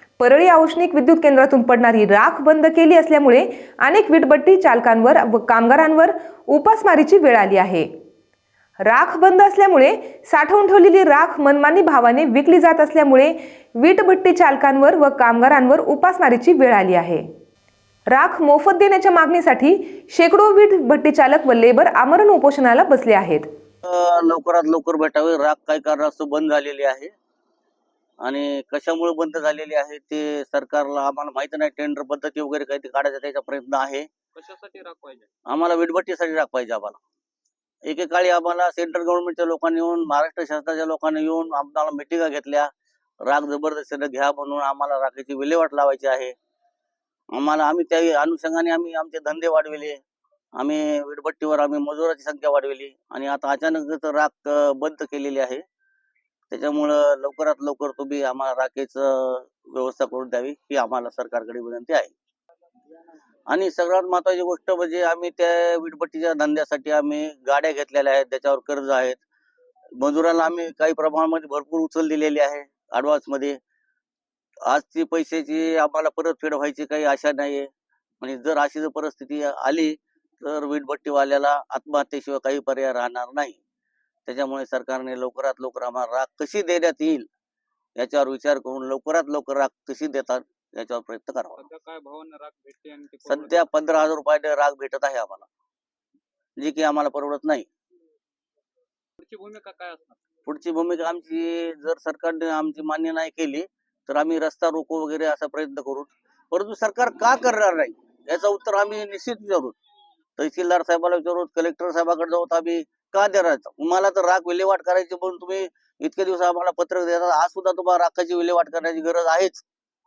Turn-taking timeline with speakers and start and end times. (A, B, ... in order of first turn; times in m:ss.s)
0:00.2-0:07.9 A
0:08.8-0:17.2 A
0:18.1-0:23.4 A
0:23.8-0:27.1 B
0:28.2-0:34.1 B
0:34.3-0:35.3 C
0:35.5-0:37.0 B
0:37.8-0:42.7 B
0:43.2-0:46.3 B
0:47.3-0:50.0 B
0:50.6-0:55.6 B
0:56.5-1:02.1 B
1:03.5-1:09.2 B
1:10.0-1:13.6 B
1:14.7-1:17.7 B
1:18.2-1:23.6 B
1:24.3-1:27.3 B
1:28.0-1:31.6 B
1:31.6-1:33.6 C
1:33.3-1:35.5 B
1:36.6-1:37.7 B
1:39.2-1:40.2 C
1:40.4-1:49.8 B
1:50.4-1:59.6 B